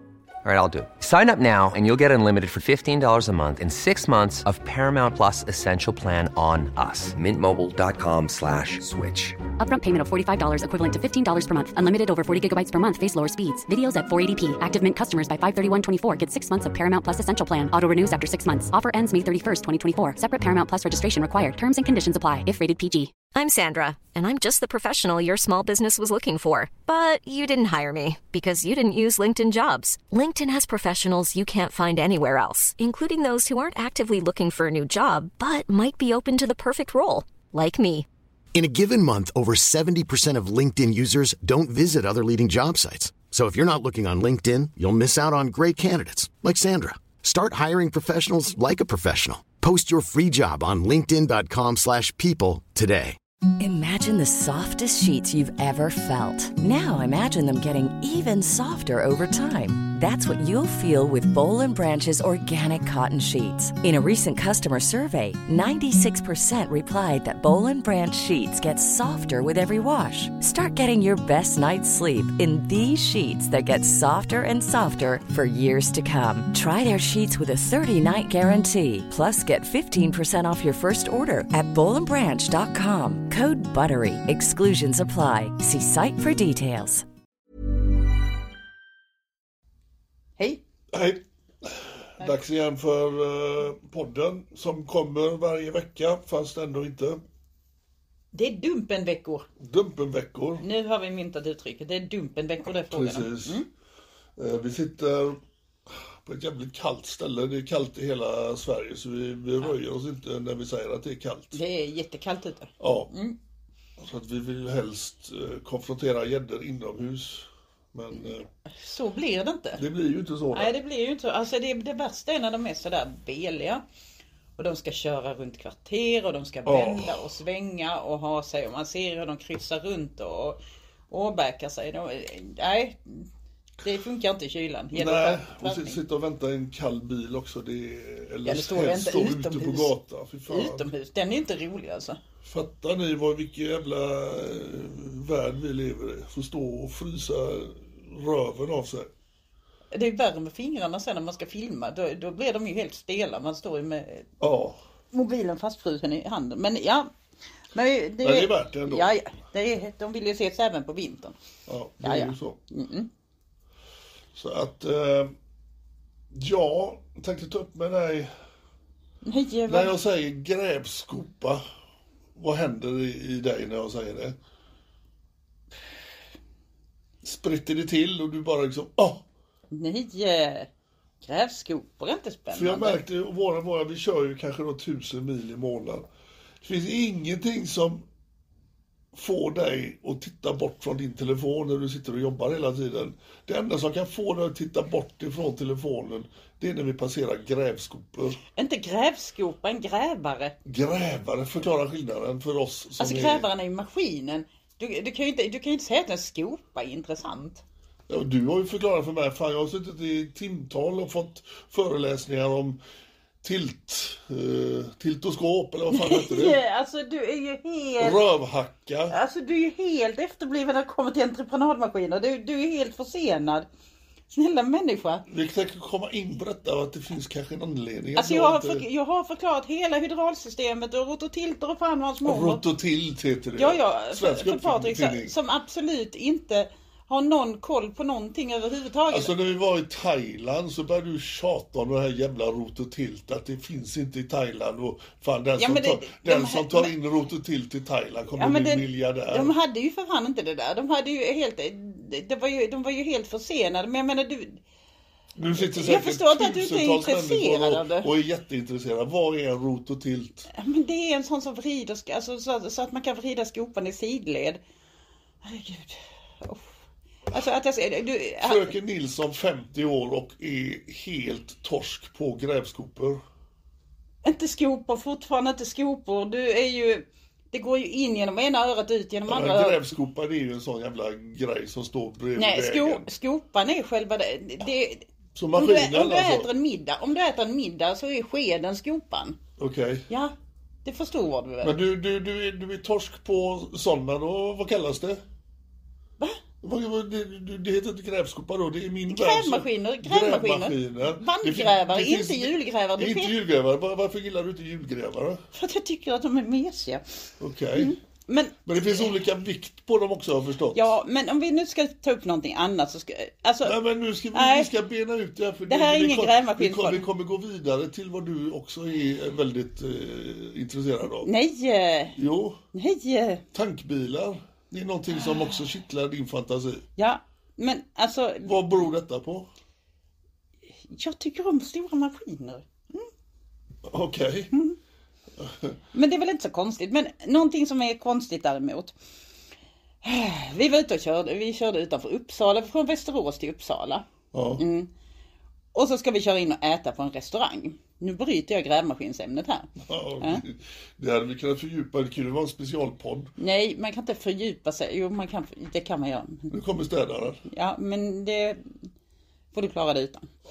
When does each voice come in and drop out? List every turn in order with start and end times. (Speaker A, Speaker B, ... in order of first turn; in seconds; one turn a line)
Speaker A: 0.4-9.4
Speaker B: 9.6-23.1
Speaker C: 23.3-38.1
Speaker D: 38.5-53.2
Speaker E: 53.6-87.0
Speaker F: 90.9-97.2
Speaker G: 98.3-99.5
Speaker F: 99.6-100.6
Speaker G: 100.6-103.7
Speaker F: 102.9-103.6
Speaker F: 104.4-105.4
Speaker F: 106.2-111.6
Speaker G: 111.5-113.3
Speaker F: 112.8-113.1
Speaker F: 114.0-118.5
Speaker G: 118.7-119.8
Speaker F: 119.8-120.7
Speaker G: 120.5-123.8
Speaker G: 124.6-133.3
Speaker F: 126.6-127.3
Speaker G: 133.8-136.0
Speaker F: 134.9-140.9
Speaker G: 138.4-139.9
Speaker G: 140.5-142.2
Speaker F: 142.4-149.1
Speaker G: 149.9-154.3
Speaker F: 154.4-154.8
Speaker G: 155.1-157.1
Speaker G: 157.7-161.3
Speaker F: 158.2-159.1
Speaker F: 161.7-162.6
Speaker G: 162.0-163.1
Speaker F: 164.3-165.3
Speaker F: 166.3-168.3
Speaker G: 169.2-169.9
Speaker F: 169.7-171.6
Speaker F: 172.3-174.4
Speaker F: 177.2-179.2
Speaker G: 179.7-180.7
Speaker G: 181.2-183.0
Speaker F: 182.5-186.1
Speaker F: 186.6-188.0
Speaker F: 189.1-198.4
Speaker G: 198.6-200.5
Speaker F: 200.6-203.5
Speaker G: 203.0-207.6
Speaker F: 208.1-212.8
Speaker F: 213.4-216.6
Speaker G: 215.9-218.2
Speaker F: 218.0-219.2
Speaker G: 219.1-223.7
Speaker G: 224.3-225.2
Speaker F: 225.3-228.8
Speaker G: 228.2-232.6
Speaker F: 232.2-235.3
Speaker G: 233.6-239.3
Speaker F: 239.1-249.5
Speaker G: 245.6-246.9
Speaker G: 248.3-254.6
Speaker F: 255.3-260.5
Speaker G: 255.6-258.1
Speaker G: 260.5-264.6
Speaker G: 265.4-266.8
Speaker G: 267.3-268.7
Speaker F: 268.4-273.2
Speaker G: 274.2-279.8
Speaker F: 279.3-283.1
Speaker G: 282.4-289.4
Speaker F: 285.3-286.5
Speaker F: 289.6-290.1
Speaker G: 290.1-290.3
Speaker G: 290.8-291.7
Speaker F: 291.6-295.2
Speaker F: 296.6-305.4
Speaker G: 299.1-303.3
Speaker G: 305.5-307.0
Speaker F: 307.4-308.0
Speaker G: 307.8-309.1
Speaker F: 308.6-310.9
Speaker G: 310.7-313.8
Speaker F: 313.6-321.3
Speaker G: 314.3-314.7
Speaker G: 315.7-317.1
Speaker G: 321.2-322.2
Speaker F: 322.1-322.6
Speaker G: 322.7-323.4
Speaker F: 323.5-326.8
Speaker G: 327.0-328.5
Speaker F: 328.4-329.4
Speaker G: 330.9-333.1
Speaker F: 333.9-334.5
Speaker F: 335.4-335.8
Speaker G: 335.9-338.9
Speaker G: 340.0-344.1
Speaker F: 344.3-344.6
Speaker G: 344.6-344.9
Speaker G: 345.7-350.4
Speaker F: 349.8-353.3
Speaker G: 353.4-356.5
Speaker F: 356.5-357.4
Speaker G: 357.4-358.6
Speaker G: 359.5-360.3